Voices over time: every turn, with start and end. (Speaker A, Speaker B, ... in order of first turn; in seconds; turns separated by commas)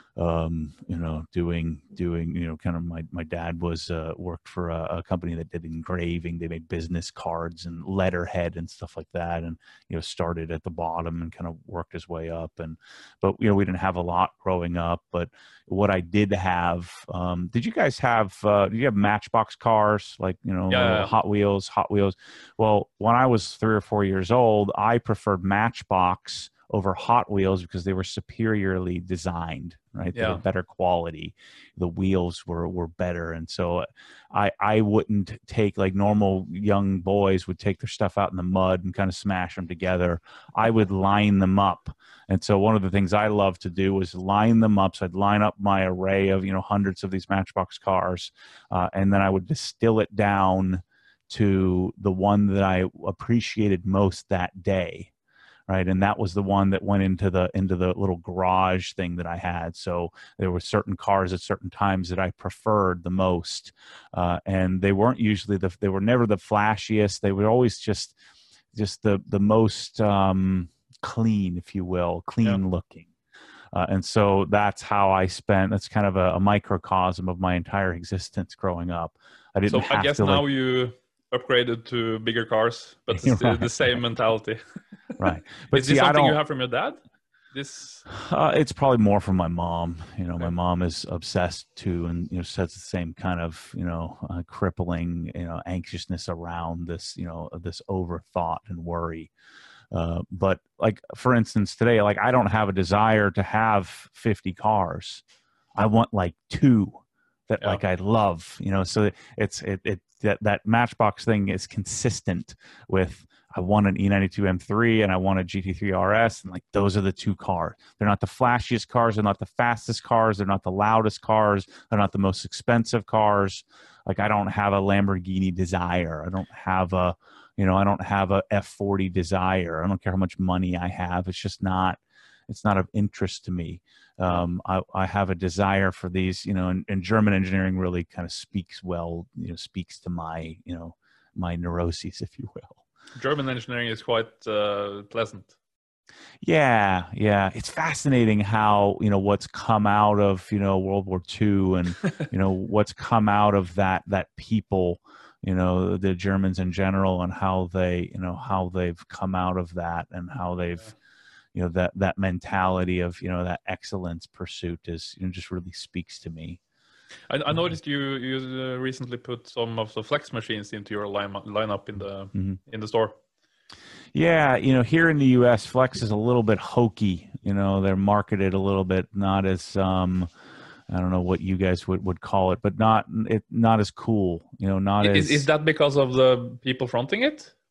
Speaker A: 0.1-55.1, Speaker B: 20.7-21.1, Speaker B: 30.1-30.4, Speaker A: 55.7-68.2, Speaker A: 68.7-73.1, Speaker A: 73.7-80.5, Speaker B: 79.7-84.6, Speaker A: 83.1-83.7, Speaker B: 85.2-87.0, Speaker A: 85.2-86.4, Speaker B: 87.5-88.1, Speaker A: 88.1-99.3, Speaker A: 99.9-105.2, Speaker A: 105.8-142.8, Speaker B: 143.2-145.5, Speaker A: 146.4-160.9, Speaker A: 161.5-166.6, Speaker B: 167.3-173.1, Speaker A: 174.1-180.3, Speaker A: 180.9-185.5, Speaker B: 185.0-187.5